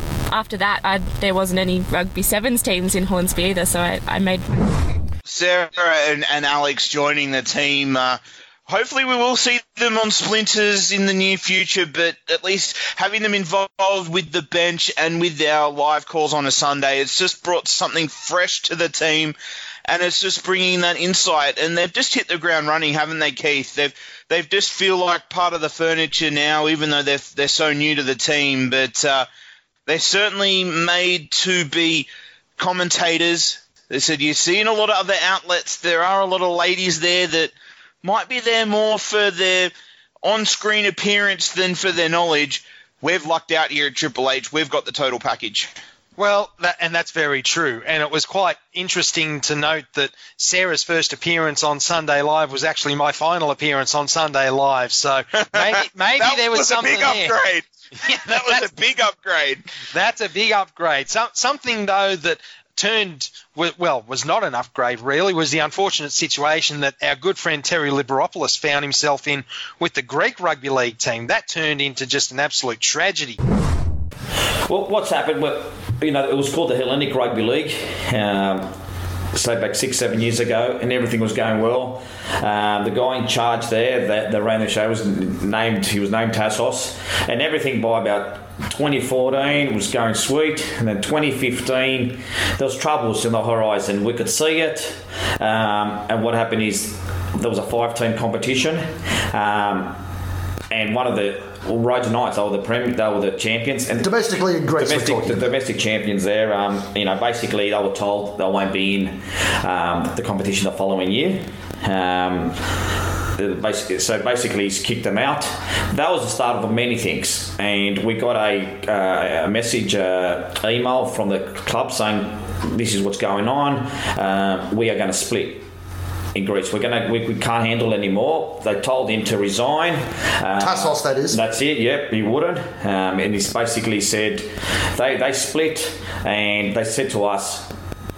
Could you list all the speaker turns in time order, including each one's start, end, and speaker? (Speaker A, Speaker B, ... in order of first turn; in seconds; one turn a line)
Speaker A: 0.3-5.0
Speaker B: 5.3-19.4
Speaker B: 19.9-29.3
Speaker B: 29.9-37.5
Speaker B: 38.0-45.7
Speaker C: 46.2-57.4
Speaker B: 55.5-57.6
Speaker C: 58.0-58.7
Speaker B: 58.2-59.6
Speaker C: 59.9-73.4
Speaker D: 74.7-78.7
Speaker D: 79.3-100.0
Speaker D: 100.7-104.1
Speaker E: 104.0-105.4
Speaker D: 104.7-112.6
Speaker D: 113.4-125.7
Speaker D: 126.3-137.7
Speaker E: 130.6-131.4